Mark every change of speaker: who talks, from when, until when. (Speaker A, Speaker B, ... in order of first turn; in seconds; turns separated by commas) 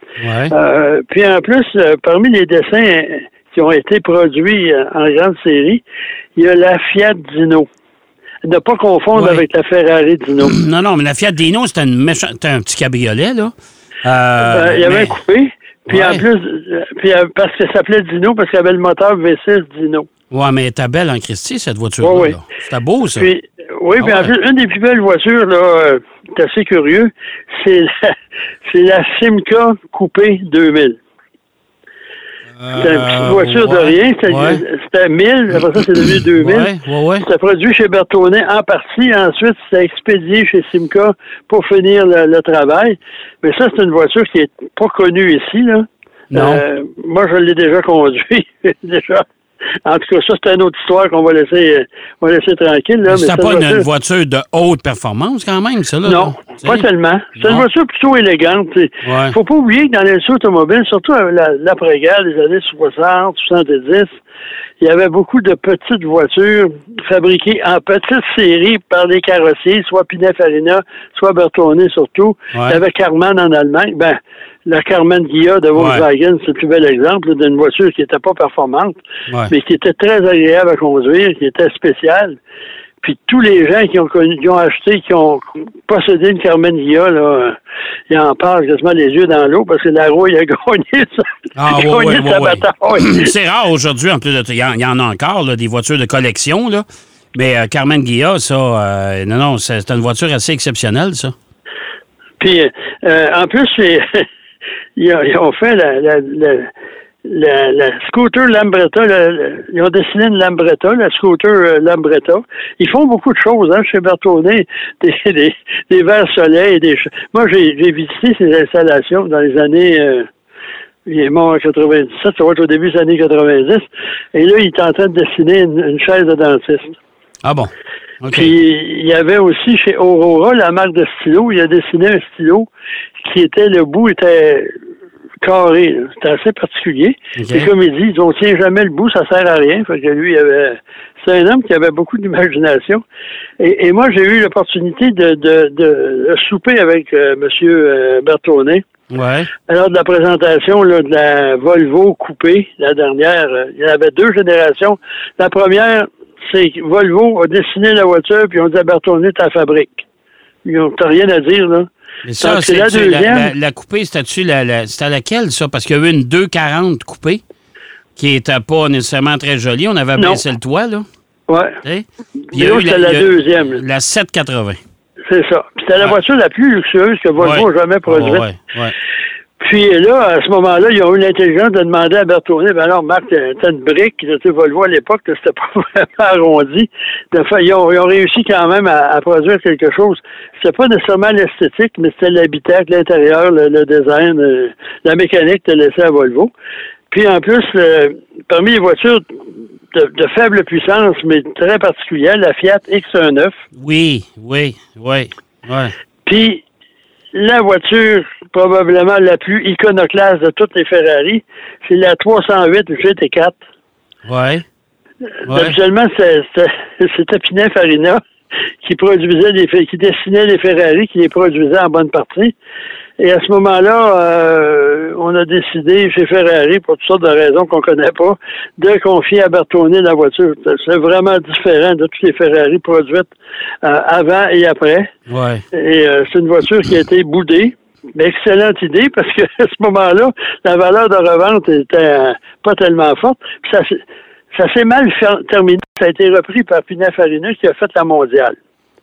Speaker A: 0.2-0.5, Speaker B: 0.5-5.8, Speaker B: 6.4-7.7, Speaker B: 8.4-10.5, Speaker A: 9.1-9.5, Speaker A: 10.4-13.5, Speaker A: 14.0-15.2, Speaker B: 14.4-20.1, Speaker A: 15.9-16.2, Speaker A: 20.3-23.3, Speaker B: 22.0-22.4, Speaker B: 23.1-31.0, Speaker A: 24.0-24.3, Speaker A: 32.6-34.6, Speaker B: 32.7-49.2, Speaker A: 36.4-37.3, Speaker A: 46.3-46.6, Speaker B: 49.9-53.9, Speaker A: 53.1-56.9, Speaker B: 56.0-64.1, Speaker A: 57.4-57.7, Speaker A: 59.0-59.4, Speaker B: 64.8-82.4, Speaker A: 72.5-72.8, Speaker A: 75.8-76.0, Speaker B: 83.0-87.6, Speaker B: 88.1-93.3, Speaker A: 91.6-101.3, Speaker B: 102.4-104.3, Speaker B: 105.0-106.7, Speaker B: 107.2-120.3, Speaker B: 121.1-127.0, Speaker A: 127.4-128.5, Speaker B: 128.3-132.7, Speaker B: 133.2-134.7, Speaker B: 135.4-143.0, Speaker A: 137.4-137.7, Speaker B: 143.6-148.8, Speaker A: 149.1-149.5, Speaker B: 149.7-160.1, Speaker B: 160.7-161.9, Speaker A: 162.2-167.4, Speaker B: 162.4-163.5, Speaker A: 168.2-171.0, Speaker B: 170.2-170.4, Speaker B: 171.5-171.8, Speaker A: 171.8-174.8, Speaker B: 172.5-173.8, Speaker B: 175.3-178.5, Speaker A: 177.4-178.9, Speaker B: 179.6-196.5, Speaker B: 197.1-199.3, Speaker B: 199.9-203.6, Speaker A: 203.8-205.9, Speaker B: 206.2-206.6, Speaker B: 207.3-213.6, Speaker A: 214.3-214.6, Speaker A: 215.5-215.8, Speaker B: 215.5-218.2, Speaker B: 218.8-222.6, Speaker B: 223.2-233.3, Speaker B: 233.8-235.1, Speaker A: 235.3-235.6, Speaker B: 235.7-248.6